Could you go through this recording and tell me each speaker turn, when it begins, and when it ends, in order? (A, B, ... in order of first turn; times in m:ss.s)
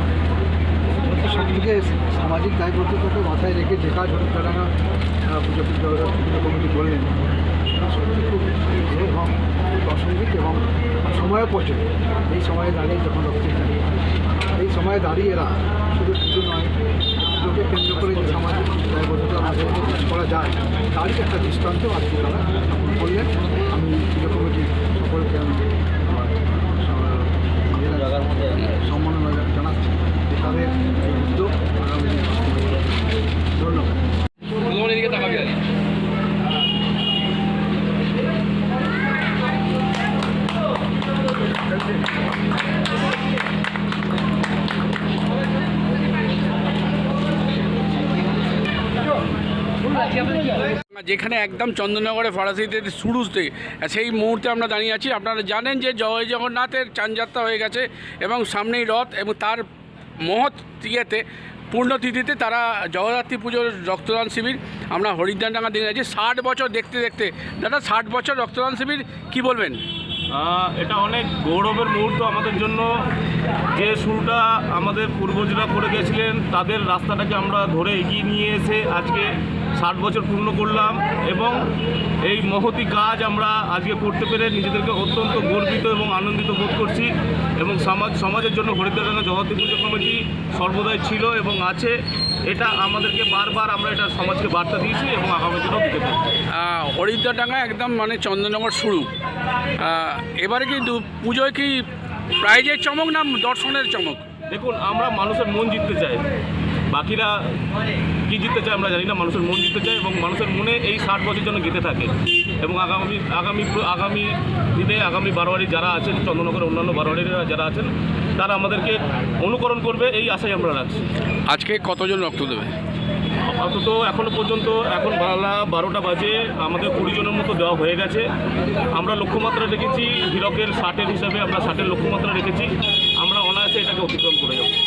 0:01.1-0:04.7 A
0:05.3-0:07.2 A
0:07.7-0:13.8 A
0:14.6-0:16.8 A
0:17.4-0:32.9 A
0:33.6-0:34.0 A
0:34.6-0:35.6 B
0:50.9-0:59.6 B
1:00.2-1:09.8 B
1:10.3-1:12.9 C
1:13.7-1:21.6 C
1:22.2-1:32.0 C
1:32.5-1:36.2 C
1:36.5-1:39.1 B
1:39.8-1:41.8 B
1:42.4-1:44.2 B
1:44.5-1:46.2 C
1:46.9-1:47.3 C
1:48.3-2:01.1 C
2:01.5-2:02.7 B
2:03.4-2:08.2 C
2:08.9-2:14.7 C